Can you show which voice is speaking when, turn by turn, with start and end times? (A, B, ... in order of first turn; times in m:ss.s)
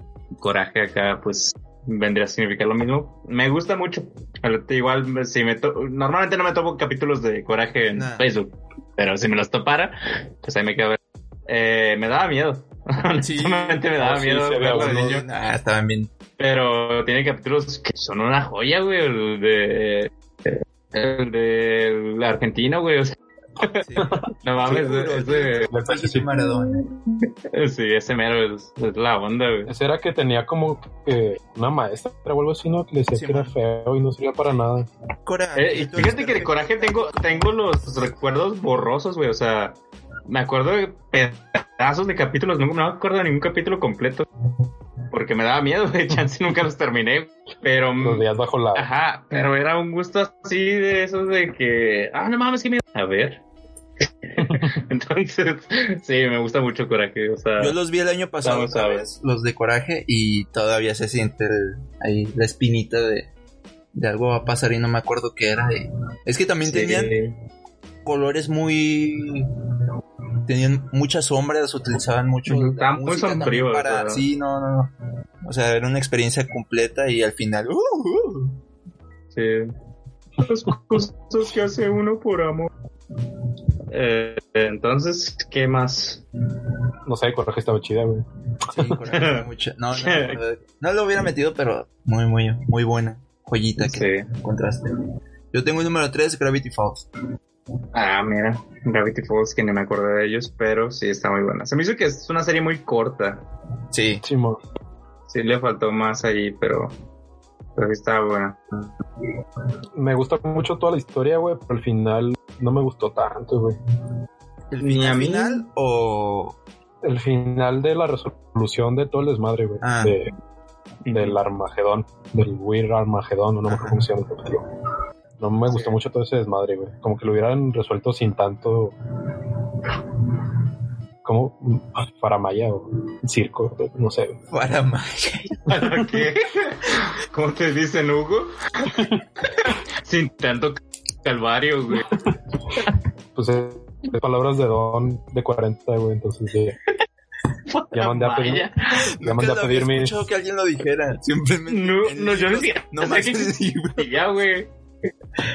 0:00.4-0:15.2 A
0:07.9-0:08.3 B
0:13.2-0:16.1 B
0:16.4-0:25.7 A
0:23.8-0:26.9 B
0:24.0-0:24.3 C
0:25.7-0:26.3 C
0:27.5-0:29.7 A
0:29.7-0:34.9 C
0:33.1-0:33.5 B
0:35.2-0:37.5 B
0:35.5-0:44.2 A
0:45.1-0:53.4 A
0:48.0-0:48.9 C
0:54.0-0:57.7 A
0:54.4-0:54.7 C
0:57.6-1:03.3 B
0:58.4-0:59.0 A
1:03.9-1:07.1 B
1:06.6-1:07.3 A
1:08.0-1:09.5 B
1:10.4-1:18.6 B
1:12.5-1:14.2 A
1:19.3-1:19.7 A
1:20.4-1:22.7 A
1:23.9-1:26.2 A
1:27.0-1:29.0 C
1:28.7-1:35.0 B
1:29.1-1:30.4 A
1:33.8-1:34.2 A
1:35.5-1:37.1 B
1:37.9-1:43.4 A
1:43.9-1:44.2 B
1:44.2-1:44.6 C
1:45.3-1:47.0 A
1:47.8-1:48.9 A
1:49.9-1:53.8 C
1:54.7-1:56.6 B
1:54.8-1:55.7 A
1:57.0-2:00.3 C
1:59.8-2:00.2 B
2:01.0-2:01.4 A
2:01.1-2:04.6 C
2:03.7-2:04.0 B
2:05.4-2:08.9 C
2:05.7-2:06.0 A
2:11.2-2:14.4 C
2:14.5-2:15.8 B
2:15.7-2:22.1 A
2:23.3-2:26.8 C
2:27.7-2:29.0 A
2:27.9-2:28.7 C
2:29.0-2:34.2 B
2:29.2-2:30.2 C
2:31.7-2:34.7 A